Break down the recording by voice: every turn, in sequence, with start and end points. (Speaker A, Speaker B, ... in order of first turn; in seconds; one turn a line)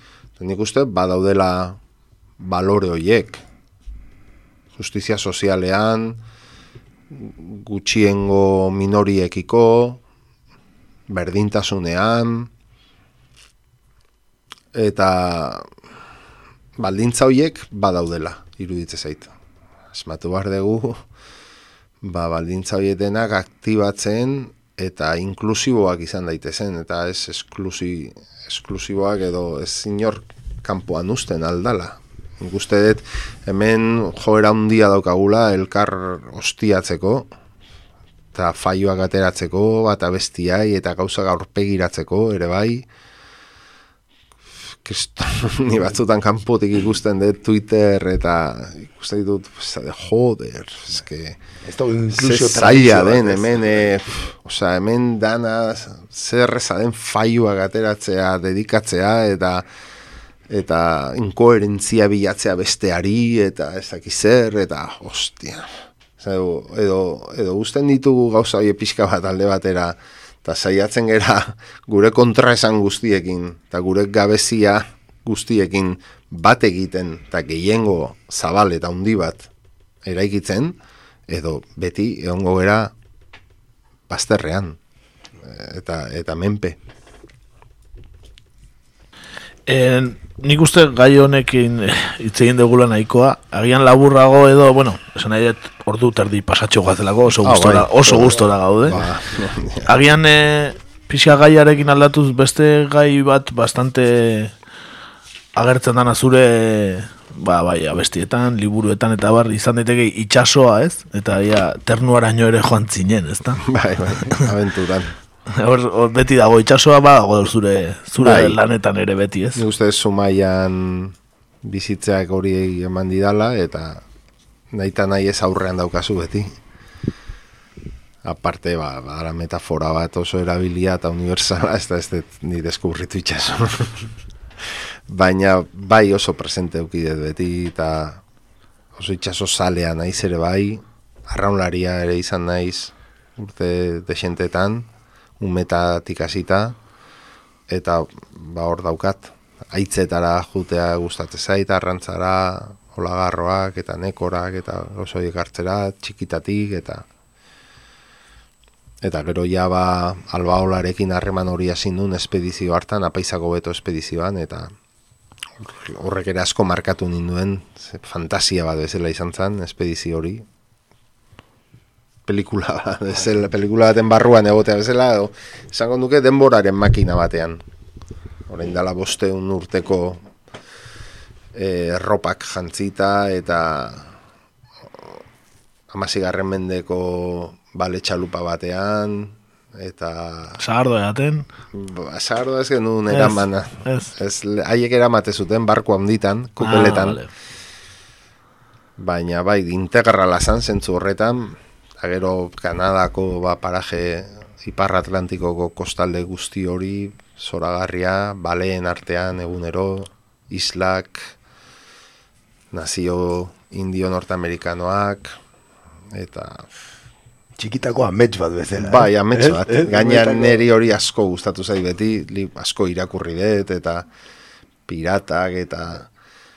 Speaker A: 0.4-1.8
Speaker A: 2.4-3.4
Speaker A: 4.7-6.2
Speaker A: 7.1-10.0
Speaker A: 11.1-12.5
Speaker A: 14.7-15.7
Speaker A: 16.8-19.3
Speaker A: 19.9-21.0
Speaker A: 22.0-37.3
Speaker A: 38.3-42.8
Speaker A: 44.8-51.4
Speaker B: 51.6-53.9
Speaker A: 52.1-59.6
Speaker A: 60.5-79.5
Speaker A: 80.0-80.8
Speaker A: 81.3-82.9
Speaker A: 84.1-84.8
Speaker A: 85.4-86.8
Speaker C: 89.7-99.1
Speaker A: 97.4-99.9
Speaker C: 99.9-104.5
Speaker C: 105.5-113.6
Speaker A: 113.6-115.1
Speaker C: 115.5-119.6
Speaker A: 118.2-118.6
Speaker A: 119.5-124.0
Speaker A: 124.7-126.5
Speaker A: 128.2-134.0
Speaker A: 135.1-138.2
Speaker A: 138.9-144.9
Speaker A: 145.4-146.8
Speaker A: 147.7-157.0
Speaker A: 159.0-164.7
Speaker A: 165.6-170.4
Speaker A: 172.3-177.6
Speaker A: 178.5-180.2
Speaker A: 181.5-184.1
Speaker A: 185.9-190.6
Speaker C: 190.6-191.4
Speaker A: 191.7-197.2
Speaker C: 193.1-194.1
Speaker C: 196.6-197.3
Speaker A: 199.0-211.3
Speaker A: 212.7-215.3
Speaker A: 216.1-216.7
Speaker B: 217.6-220.6
Speaker A: 218.8-224.1
Speaker A: 224.9-226.1